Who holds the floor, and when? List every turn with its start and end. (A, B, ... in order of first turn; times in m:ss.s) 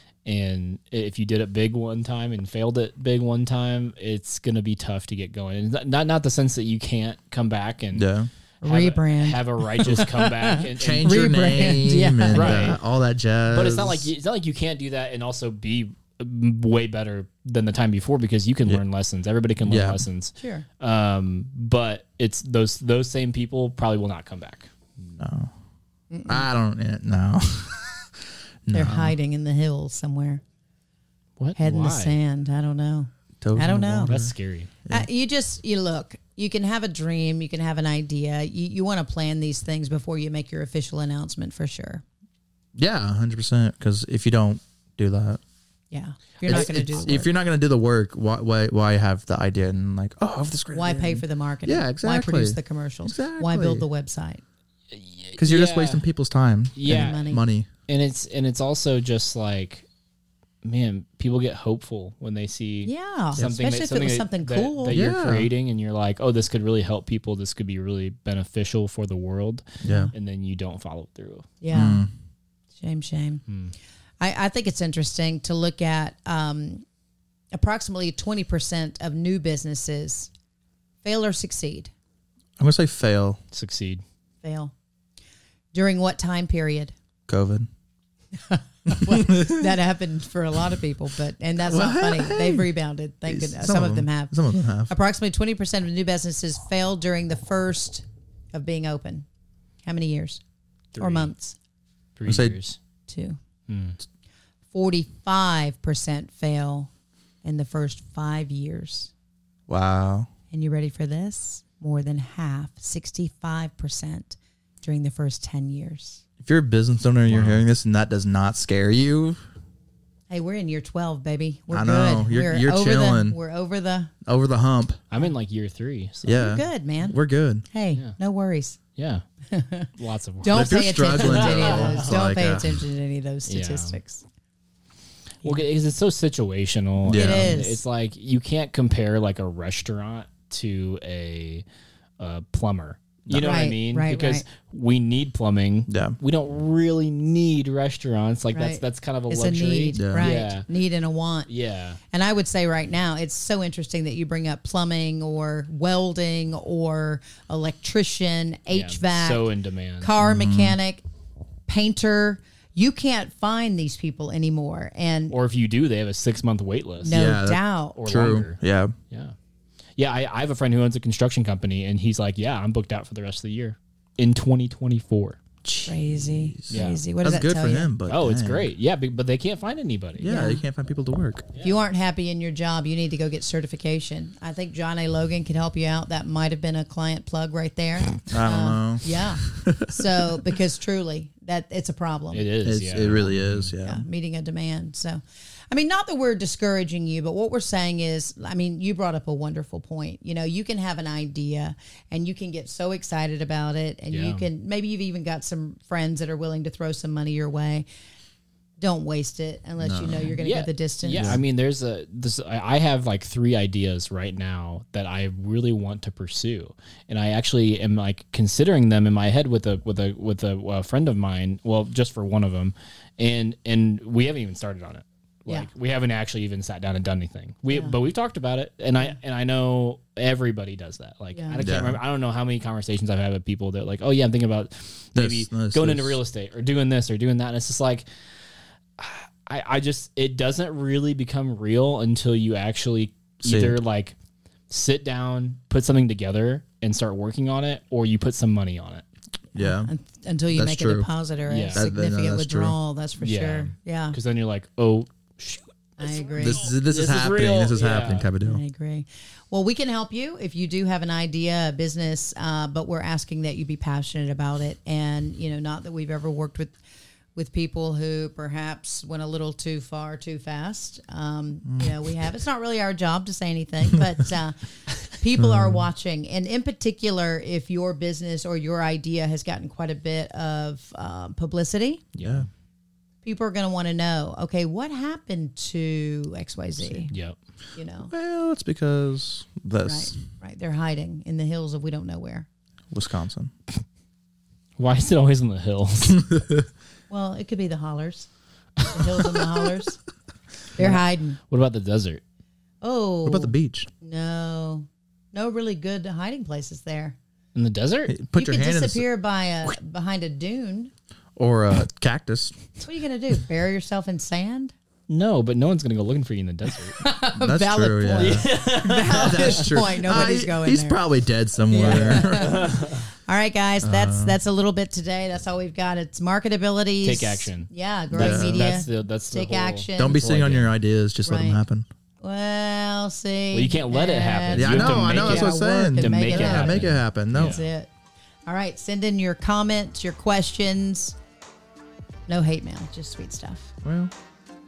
0:00.2-0:08.1 A
0:07.9-0:08.3 B
0:08.6-0:12.8 C
0:08.6-0:12.8 A
0:10.6-0:14.1 B
0:13.5-0:25.2 A
0:19.6-0:20.0 B
0:20.4-0:20.6 C
0:25.2-0:25.5 B
0:26.1-0:26.5 C
0:26.3-0:28.0 B
0:28.6-0:29.2 B
0:28.7-0:30.4 C
0:31.4-0:32.2 A
0:31.6-0:34.2 C
0:33.4-0:34.3 B
0:34.0-0:34.7 A
0:34.9-0:42.0 C
0:42.8-0:45.4 B
0:45.9-0:47.3 C
0:46.4-0:46.8 A
0:46.5-0:53.8 B
0:50.7-0:54.4 C
0:54.9-0:56.0 A
0:55.4-0:57.7 B
0:56.7-0:57.3 A
0:56.8-0:57.4 C
0:57.9-0:59.8 A
1:00.6-1:11.5 A
1:02.8-1:05.0 C
1:04.9-1:05.5 B
1:09.8-1:10.1 B
1:09.8-1:10.1 C
1:11.6-1:12.1 C
1:11.7-1:12.1 B
1:12.8-1:13.4 C
1:13.5-1:13.7 A
1:14.2-1:16.8 C
1:17.5-1:20.3 C
1:21.0-1:21.9 C
1:22.6-1:23.4 B
1:23.5-1:24.0 A
1:24.4-1:24.7 C
1:25.7-1:26.9 C
1:27.3-1:27.7 B
1:28.4-1:39.2 C
1:28.9-1:29.7 B
1:31.6-1:32.7 B
1:33.2-1:34.9 B
1:39.8-1:40.4 C
1:40.9-1:41.3 A
1:41.0-1:41.6 C
1:42.2-1:42.8 A
1:42.2-1:42.6 B
1:43.1-1:43.4 C
1:43.7-1:44.0 A
1:44.7-1:46.9 C
1:47.4-1:49.1 C
1:49.7-1:50.3 B
1:50.5-1:56.2 C
1:56.4-1:59.4 B
1:57.3-1:57.7 A
2:00.3-2:04.1 C
2:01.7-2:03.4 B
2:04.2-2:05.0 B
2:05.1-2:06.4 A
2:06.2-2:07.6 B
2:06.3-2:08.8 C
2:09.0-2:09.2 A
2:09.5-2:09.9 C
2:10.0-2:12.2 A
2:10.4-2:14.2 C
2:10.5-2:12.8 B
2:13.5-2:14.0 A
2:15.4-2:21.6 A
2:17.0-2:17.6 B
2:17.1-2:17.8 C
2:22.2-2:30.7 A
2:23.3-2:23.6 B
2:23.4-2:24.4 C
2:25.9-2:26.2 B
2:28.5-2:31.5 C
2:29.9-2:30.3 B
2:31.5-2:32.0 A
2:32.1-2:41.0 C
2:38.7-2:40.1 A
2:40.2-2:40.8 B
2:41.7-2:45.3 C
2:45.3-2:47.2 A
2:47.0-2:48.0 C
2:47.0-2:48.9 B
2:48.0-2:48.6 A
2:50.0-2:55.4 A
2:55.6-2:58.7 B
2:55.8-2:57.9 C
2:56.7-2:57.0 A
2:58.1-3:00.4 A
3:00.2-3:01.4 B
3:00.2-3:00.6 C
3:01.5-3:01.8 A
3:01.6-3:12.5 C
3:08.3-3:10.0 B
3:12.3-3:13.7 A
3:12.6-3:14.0 B
3:13.8-3:27.8 C
3:24.1-3:24.4 A
3:28.8-3:31.3 C
3:29.8-3:30.3 B
3:30.3-3:58.0 A
3:31.1-3:31.4 B
3:47.7-3:48.0 C
3:51.3-3:51.6 C
3:51.6-3:52.0 B
3:55.1-3:56.2 B
3:59.0-4:04.1 A
4:03.4-4:03.8 B
4:04.7-4:09.0 A
4:09.5-4:14.2 C
4:09.6-4:09.9 B
4:10.5-4:11.1 B
4:11.5-4:11.9 A
4:11.7-4:12.8 B
4:13.2-4:18.3 A
4:16.0-4:16.7 C
4:16.4-4:18.6 B
4:18.4-4:26.7 C
4:27.3-4:42.0 C
4:31.6-4:32.0 B
4:35.4-4:35.8 B
4:42.2-4:42.5 A
4:43.2-4:47.1 C
4:46.9-4:47.4 A
4:47.7-4:48.1 C
4:48.1-4:50.1 B
4:49.8-4:52.5 C
4:52.9-4:53.5 B
4:54.8-4:56.3 A
4:57.1-4:58.3 C
4:58.8-5:00.0 C
5:00.7-5:01.4 C
5:00.8-5:02.2 A
5:02.8-5:07.2 C
5:03.2-5:03.9 B
5:07.5-5:08.1 A
5:08.1-5:09.0 B
5:08.3-5:10.9 C
5:11.4-5:12.6 B
5:12.8-5:14.7 C
5:15.1-5:17.0 A
5:17.0-5:21.0 C
5:17.3-5:22.7 B
5:18.1-5:19.8 A
5:21.7-5:30.2 C
5:21.7-5:23.0 A
5:23.8-5:24.4 B
5:27.0-5:30.7 A
5:28.1-5:28.8 B
5:30.0-5:31.8 B
5:31.2-5:31.6 C
5:32.2-5:37.9 C
5:33.5-5:37.6 A
5:34.5-5:37.6 B
5:38.4-5:41.2 C
5:42.3-5:43.7 C
5:43.8-5:44.1 B